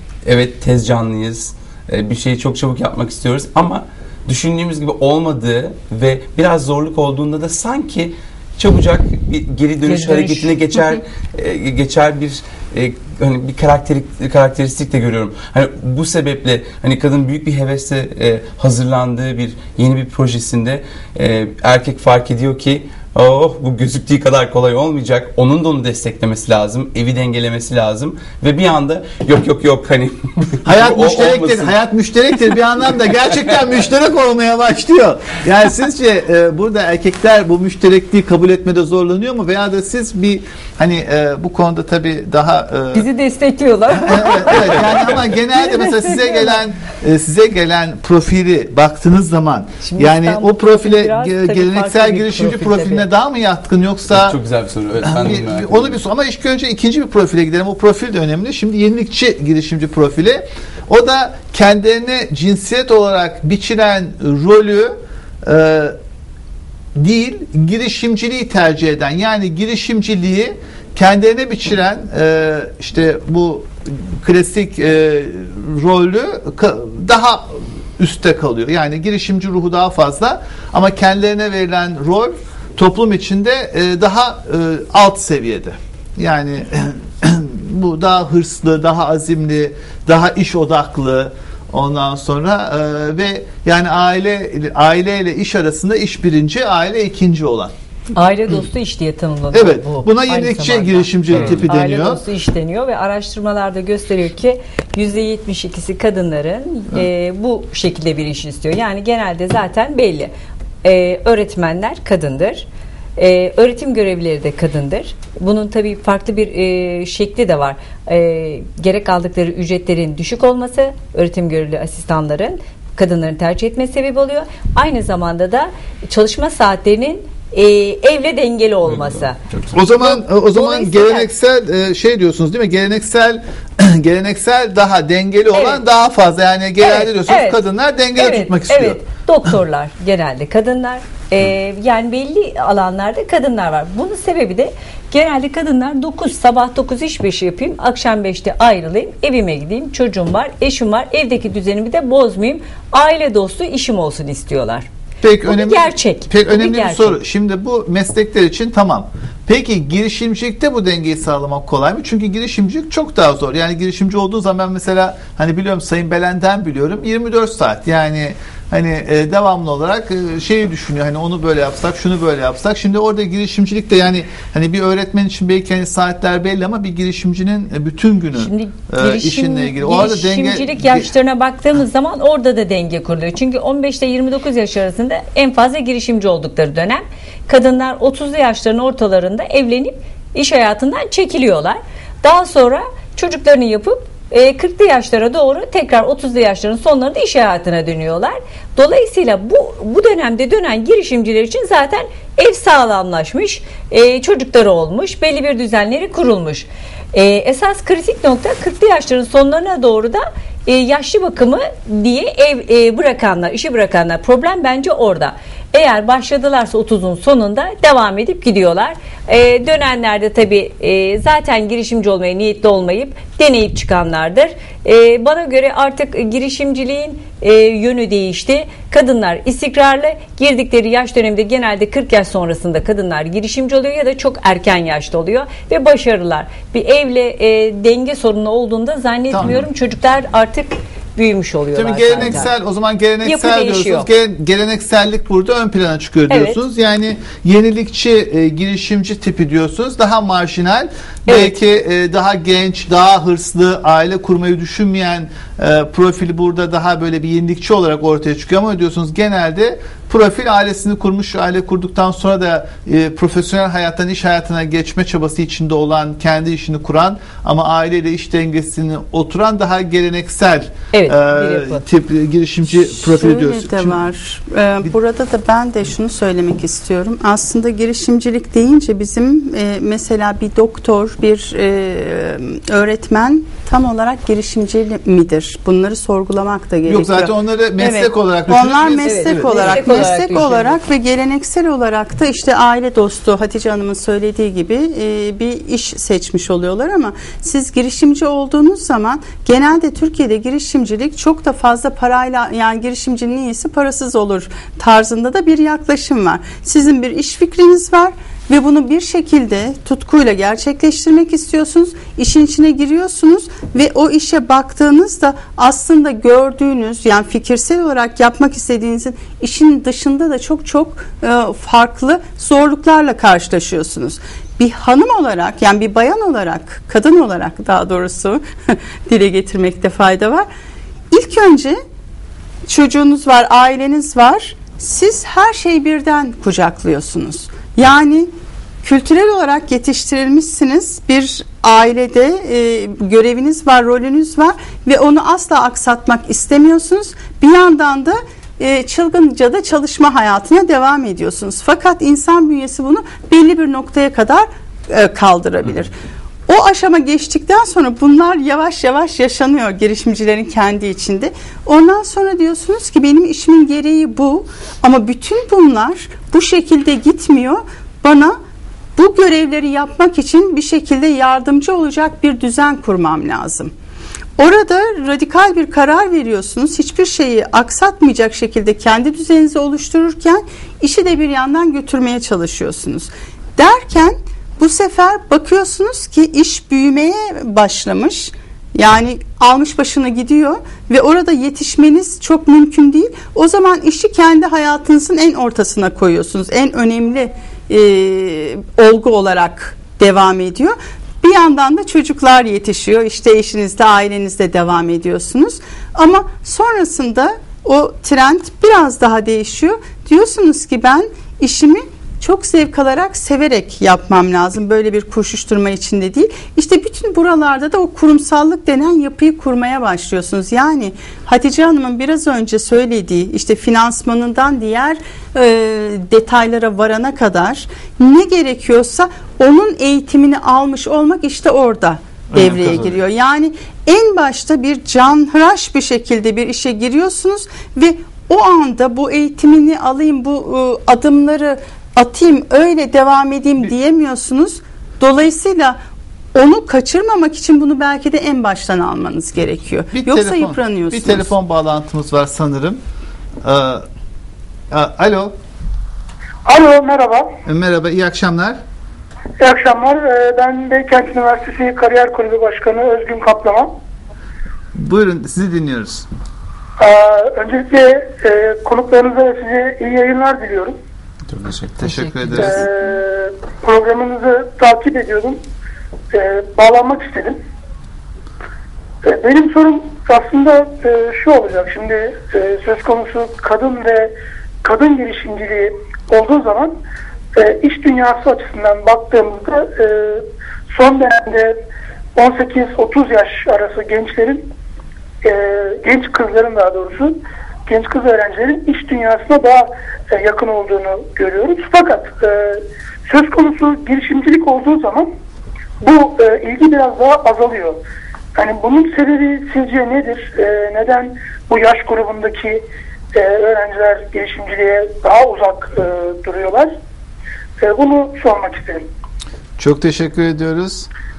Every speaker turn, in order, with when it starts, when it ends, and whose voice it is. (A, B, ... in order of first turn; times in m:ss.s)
0:00.2-0:31.8 A
0:09.9-0:10.6 B
0:30.6-0:43.1 C
0:42.9-0:46.5 B
0:44.0-0:54.4 C
0:49.8-0:53.1 B
0:54.1-0:56.0 A
0:55.0-1:06.0 C
1:07.0-1:37.7 C
1:38.1-1:50.3 B
1:39.5-1:42.2 C
1:50.8-2:11.3 B
2:08.9-2:09.7 A
2:09.7-2:19.0 C
2:15.5-2:15.8 B
2:16.8-2:17.6 B
2:18.1-2:34.9 B
2:35.2-3:01.1 C
2:35.5-2:37.2 B
2:58.3-4:02.5 B
3:59.3-3:59.6 C
4:01.8-4:34.0 C
4:03.2-4:04.1 B
4:06.3-4:06.6 B
4:11.3-4:11.6 B
4:30.9-4:31.8 B
4:32.7-5:30.5 D
4:46.9-4:50.2 C
4:49.1-4:50.8 B
5:31.1-5:31.8 D
5:32.7-5:38.3 D
5:38.8-5:55.9 D
5:56.5-6:08.4 D
6:09.0-6:13.7 D
6:14.4-7:25.8 D
7:12.3-7:13.0 C
7:26.4-7:31.3 D
7:29.9-7:32.8 C
7:33.4-7:33.8 C
7:34.7-7:35.3 C
7:36.4-7:37.3 E
7:37.5-7:38.6 C
7:39.4-7:43.7 E
7:44.8-7:46.1 C
7:46.8-7:50.8 E
7:51.3-7:52.6 A
7:51.8-7:52.6 C
7:52.4-7:55.4 E
7:56.1-7:57.4 E
7:59.0-8:04.1 E
8:04.6-8:06.8 E
8:07.4-8:11.6 E
8:12.1-8:14.5 E
8:15.2-8:25.1 E
8:25.8-8:27.8 E
8:28.4-8:32.6 E
8:33.1-8:36.7 E
8:37.6-8:38.9 E
8:39.6-8:40.9 C